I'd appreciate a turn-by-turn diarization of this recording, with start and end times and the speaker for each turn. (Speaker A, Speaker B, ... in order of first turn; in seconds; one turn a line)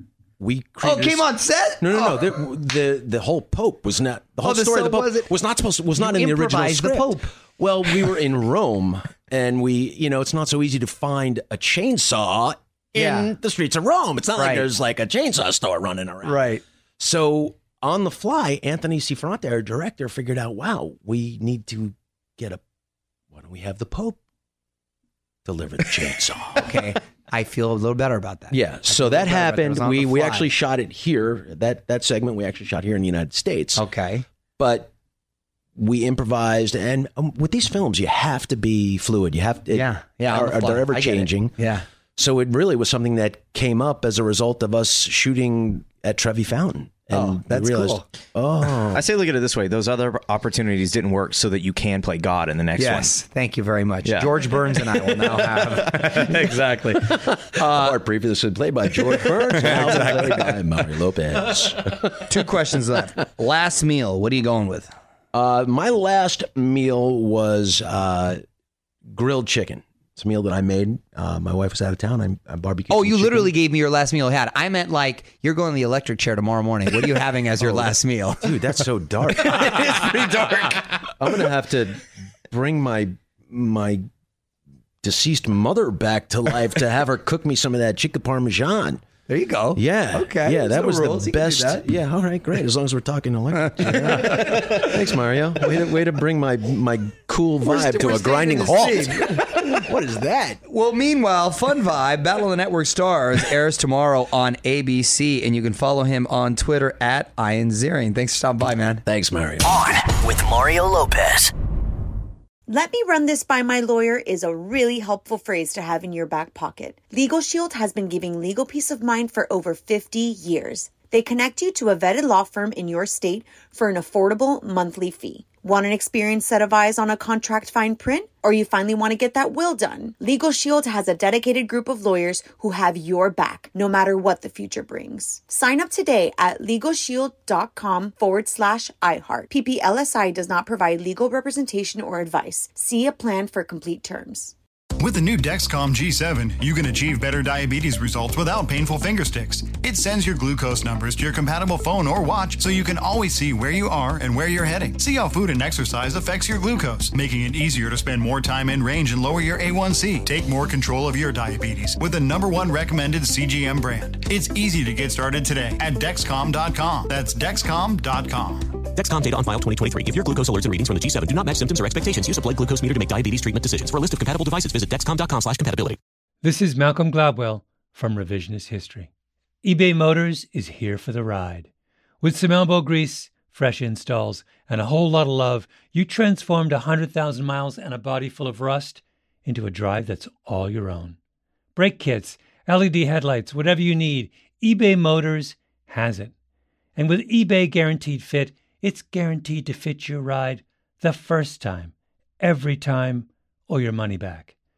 Speaker A: 0.4-1.3
Speaker B: 0.8-2.2
Speaker A: 1.8-16.4
Speaker B: 4.4-5.3
Speaker B: 5.9-7.3
Speaker B: 12.9-13.3
Speaker B: 14.4-14.7
Speaker B: 16.2-16.6
Speaker A: 17.0-22.6
Speaker A: 23.3-24.2
Speaker A: 25.4-26.8
Speaker B: 26.6-30.5
Speaker A: 28.5-33.8
Speaker B: 33.8-34.2
Speaker A: 34.6-34.9
Speaker A: 35.8-41.5
Speaker B: 39.7-41.8
Speaker A: 42.1-49.0
Speaker B: 47.1-48.0
Speaker C: 48.9-53.2
Speaker B: 52.8-56.7
Speaker C: 54.0-56.9
Speaker A: 56.2-62.2
Speaker B: 57.5-57.9
Speaker B: 59.2-60.5
Speaker B: 62.2-64.9
Speaker A: 65.3-68.4
Speaker A: 69.1-73.5
Speaker B: 72.9-78.6
Speaker A: 77.6-84.0
Speaker B: 79.5-80.7
Speaker A: 85.0-89.0
Speaker B: 89.3-91.8
Speaker A: 89.8-100.6
Speaker B: 93.6-94.7
Speaker B: 97.6-99.8
Speaker B: 100.7-109.0
Speaker A: 109.0-109.8
Speaker D: 109.6-111.5
Speaker E: 112.7-144.5
Speaker F: 145.0-168.8
Speaker D: 168.8-176.0
Speaker G: 176.4-179.1
Speaker G: 179.6-181.7
Speaker G: 182.2-191.2
Speaker G: 191.8-196.3
Speaker G: 196.9-204.5